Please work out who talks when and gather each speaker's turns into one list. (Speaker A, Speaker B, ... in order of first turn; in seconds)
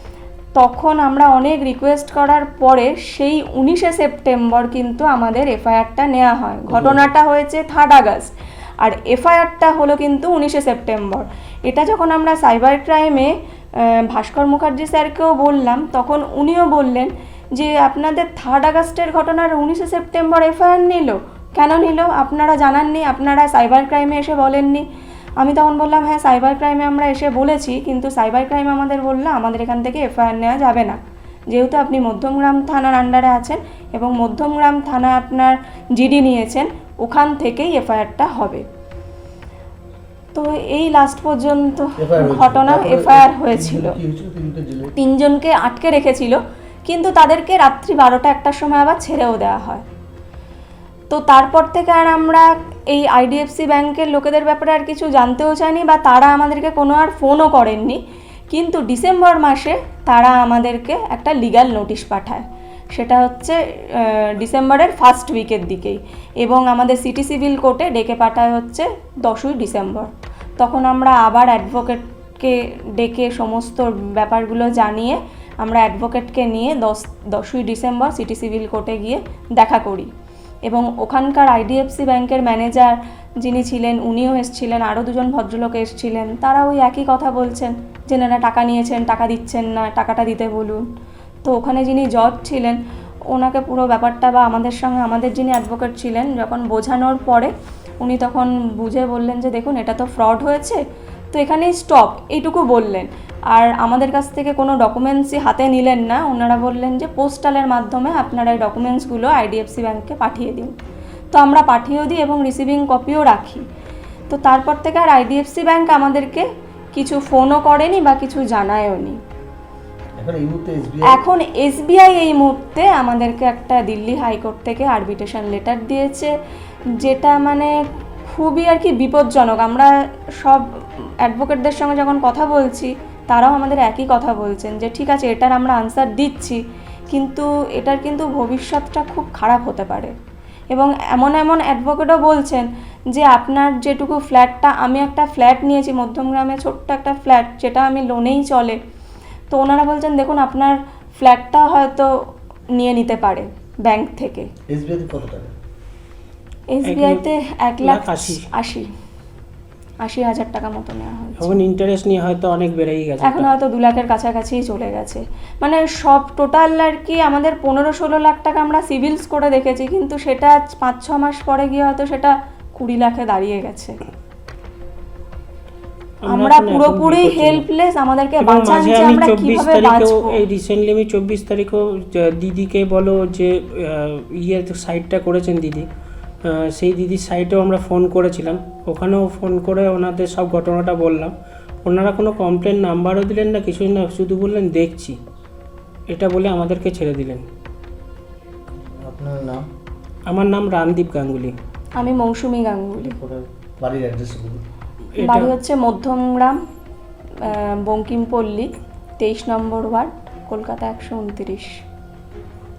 Speaker A: 0.6-24.8, 25.4-31.0, 31.5-38.6, 40.3-44.0, 45.0-49.8, 51.1-58.0, 58.5-62.4, 63.0-80.1, 80.7-90.8, 91.5-92.8, 93.3-100.8, 101.3-110.7, 111.3-113.6, 114.3-119.2, 121.1-126.3, 127.0-127.7, 128.3-129.9, 131.2-136.6, 137.1-140.1, 140.7-148.8, 149.5-152.1, 152.8-154.5, 156.7-158.9, 160.0-161.6, 163.2-174.0, 176.3-180.4, 202.0-203.2, 205.2-206.6, 207.4-211.8
Speaker B: 6.7-7.0, 42.0-44.9, 120.2-121.2, 154.7-155.5, 199.0-199.7, 203.0-204.6
Speaker C: 156.8-157.2, 157.8-158.4, 161.4-163.5, 176.2-177.6, 178.4-185.9, 186.4-195.2, 196.1-197.4, 200.3-201.6, 205.1-205.5